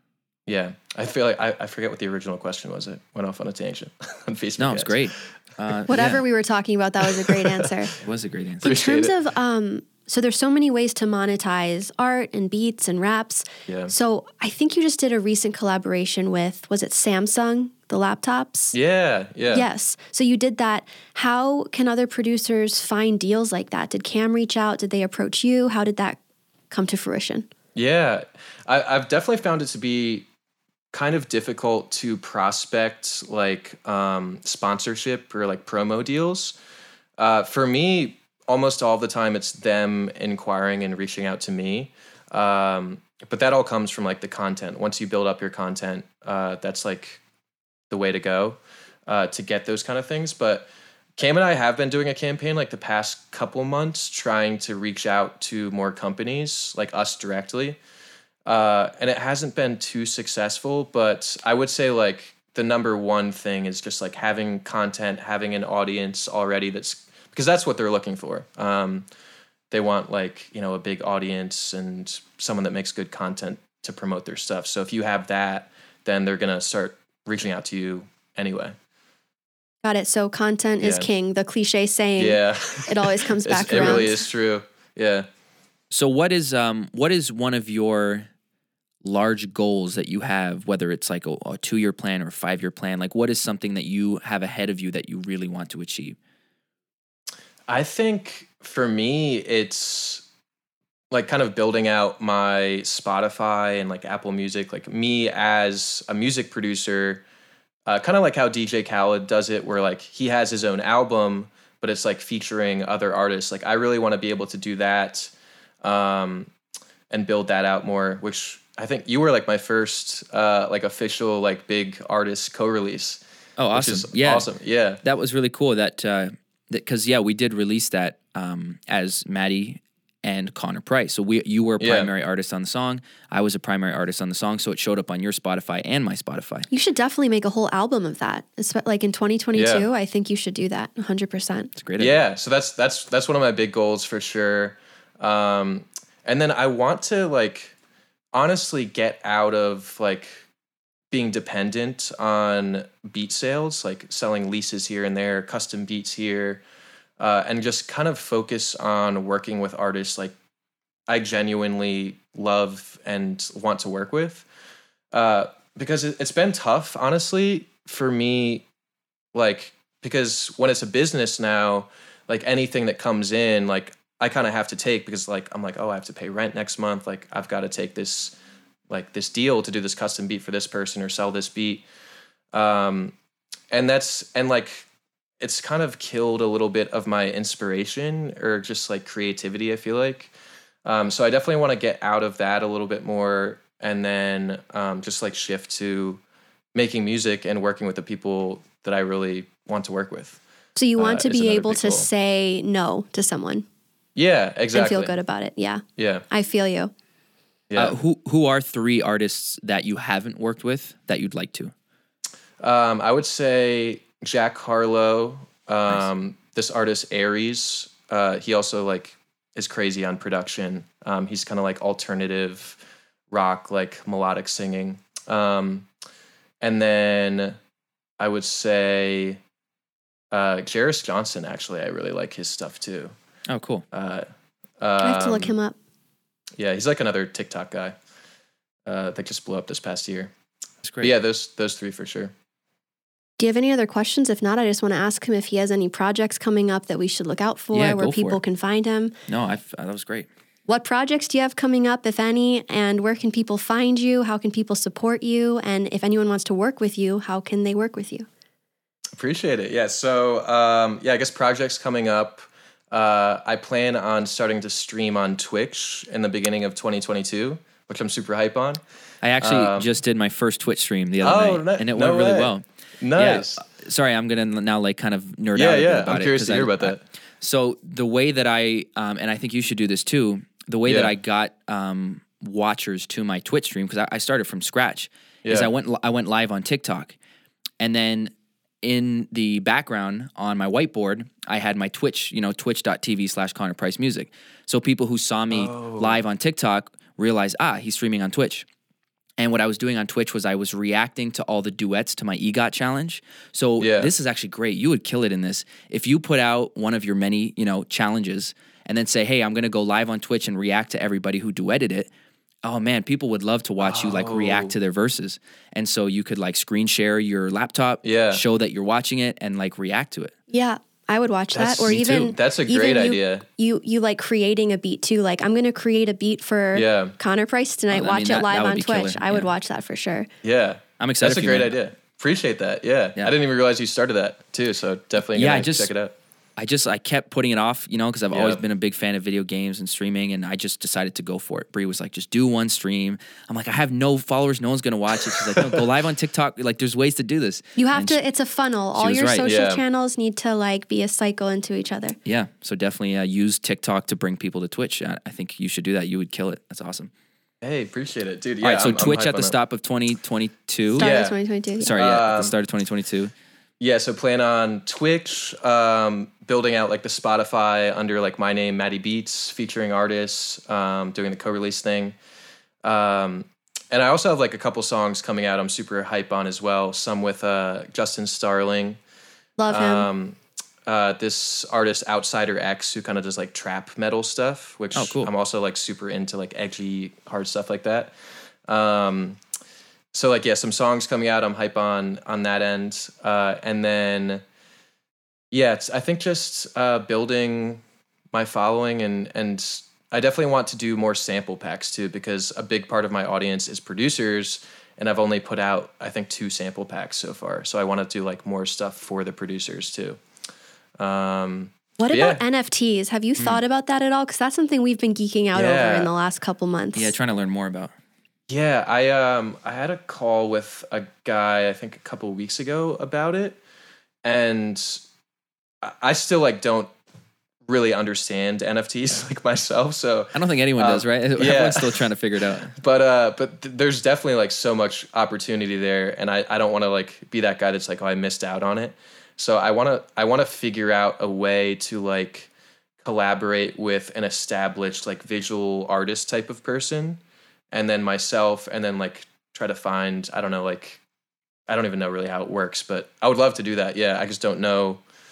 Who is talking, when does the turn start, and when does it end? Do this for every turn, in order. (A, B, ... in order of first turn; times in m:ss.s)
0:00.5-0:05.1 A
0:04.6-0:06.2 B
0:05.9-0:07.9 C
0:07.2-0:07.7 A
0:08.0-0:08.7 B
0:08.6-0:09.1 A
0:08.6-0:18.8 C
0:13.7-0:13.9 A
0:18.7-0:19.6 A
0:19.5-0:26.2 C
0:26.7-0:27.5 C
0:27.8-0:30.3 A
0:30.9-0:36.6 A
0:37.2-0:47.2 A
0:47.9-0:57.8 A
0:58.5-1:09.1 A
1:09.7-1:18.8 A
1:19.8-1:24.2 C
1:20.8-1:21.1 A
1:22.2-1:25.3 A
1:23.7-1:24.0 B
1:25.9-1:28.3 B
1:29.0-1:36.2 B
1:37.7-1:40.3 A
1:41.1-1:47.2 A
1:47.9-1:56.5 A
1:57.1-2:03.2 A
2:03.6-2:04.5 B
2:03.7-2:05.0 A
2:05.0-2:16.7 B
2:11.8-2:12.1 A
2:16.7-2:21.7 C
2:19.6-2:19.9 A
2:21.8-2:22.2 B
2:22.0-2:27.7 A
2:28.3-2:30.4 A
2:31.1-2:36.6 A
2:37.2-2:40.4 A
2:41.1-2:44.4 A
2:45.1-2:48.7 A
2:49.3-2:58.4 A
2:58.9-3:01.8 A
3:02.5-3:03.1 A
3:03.7-3:04.9 A
3:05.4-3:10.3 A
3:10.8-3:16.2 A
3:16.7-3:20.4 A
3:20.8-3:23.6 C
3:21.0-3:22.1 A
3:24.2-3:25.1 A
3:24.7-3:26.9 C
3:26.0-3:26.2 A
3:27.7-3:28.0 A
3:27.8-3:31.7 B
3:32.6-3:45.9 A
3:46.6-3:47.6 A
3:48.2-3:49.4 A
3:50.3-3:53.1 A
3:53.5-3:53.8 B
3:53.9-3:54.3 A
3:54.8-3:55.6 A
3:55.0-3:55.8 C
3:56.6-3:58.0 A
3:58.9-4:00.3 A
4:00.8-4:01.1 B
4:01.0-4:02.3 A
4:03.4-4:09.1 C
4:07.7-4:08.4 B
4:09.3-4:10.3 B
4:10.7-4:18.3 C
4:19.1-4:28.8 A
4:29.2-4:32.6 B
4:29.4-4:29.9 A
4:31.2-4:33.6 A
4:33.2-4:47.2 B
4:35.6-4:37.0 A
4:40.9-4:41.1 A
4:45.4-4:45.7 A
4:47.8-4:48.3 B
4:48.8-4:58.7 B
4:55.5-4:56.2 A
4:59.4-5:12.1 B
5:03.8-5:04.1 A
5:12.6-5:20.3 B
5:13.8-5:14.7 A
5:18.0-5:18.4 A
5:20.5-5:30.3 C
5:21.5-5:23.4 A
5:26.7-5:27.2 A
5:27.9-5:29.5 B
5:30.4-5:36.1 A
5:31.0-5:31.7 B
5:35.4-5:35.9 B
5:36.6-5:48.2 B
5:38.3-5:38.6 A
5:45.3-5:45.9 A
5:47.8-5:52.2 C
5:49.0-5:49.5 B
5:49.4-5:49.8 A
5:52.2-5:57.1 B
5:57.6-5:59.6 A
5:58.6-6:01.1 B
6:01.0-6:01.4 A
6:01.0-6:02.0 C
6:01.8-6:03.3 B
6:02.0-6:02.5 A
6:03.8-6:12.2 A
6:12.8-6:19.0 A
6:19.6-6:20.1 C
6:19.7-6:28.1 A
6:25.0-6:25.3 B
6:28.7-6:29.4 A
6:30.1-6:34.4 A
6:35.5-6:50.2 A
6:51.0-6:52.4 A
6:52.0-6:57.1 C
6:55.5-6:56.1 A
6:57.0-6:57.9 B
6:58.5-7:03.6 A
7:04.2-7:05.0 A
7:05.8-7:06.9 A
7:07.7-7:12.1 A
7:10.3-7:12.7 B
7:12.7-7:22.5 A
7:23.0-7:27.2 A
7:27.7-7:31.0 A
7:31.7-7:35.0 A